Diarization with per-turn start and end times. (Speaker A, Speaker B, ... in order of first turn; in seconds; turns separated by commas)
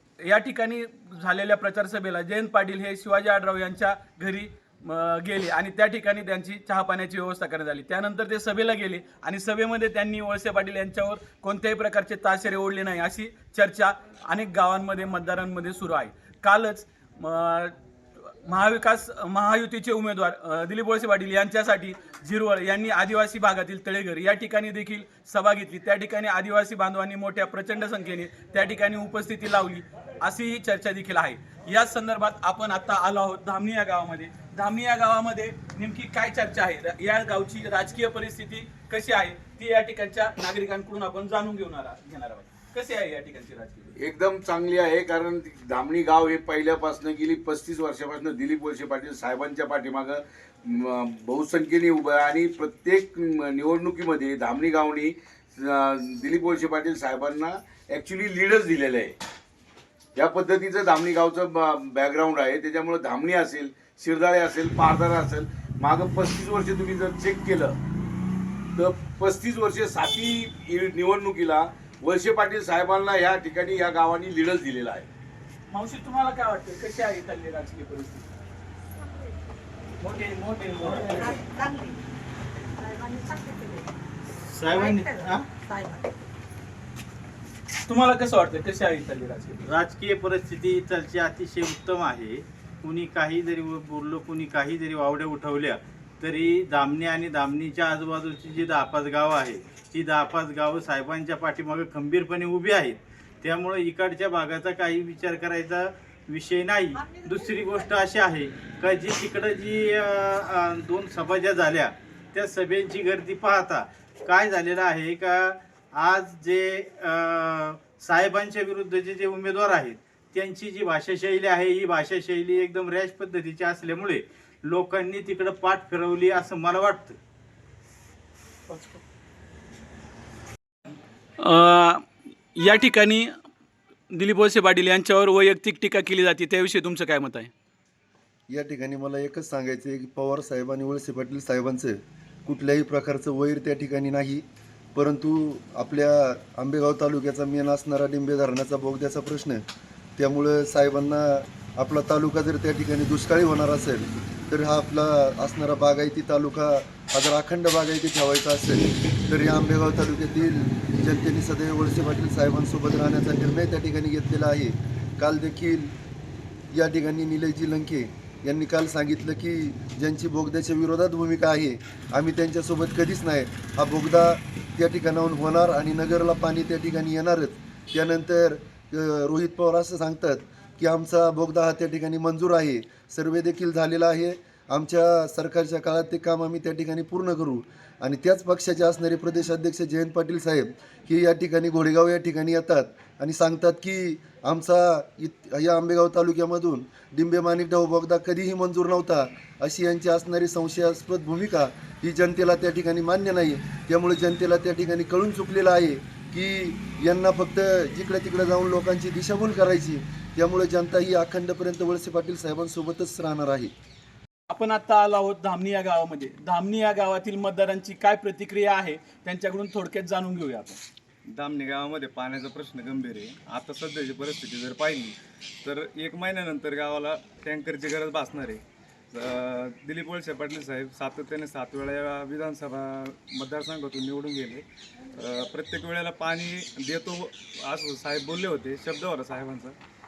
Speaker A: 0.2-17.7, Speaker A: 18.4-43.9, Speaker B: 44.0-59.2, Speaker B: 60.2-67.8, Speaker B: 68.8-75.1, Speaker A: 75.7-78.3, Speaker C: 80.0-81.4, Speaker D: 81.4-81.9, Speaker D: 82.8-83.8, Speaker C: 84.5-85.5, Speaker D: 85.6-86.1, Speaker A: 87.9-89.6, Speaker C: 89.7-127.2, Speaker A: 131.4-133.3, Speaker A: 134.1-137.5, Speaker E: 138.5-149.6, Speaker E: 150.2-165.9, Speaker E: 166.7-213.7, Speaker A: 214.5-220.8, Speaker F: 221.3-239.8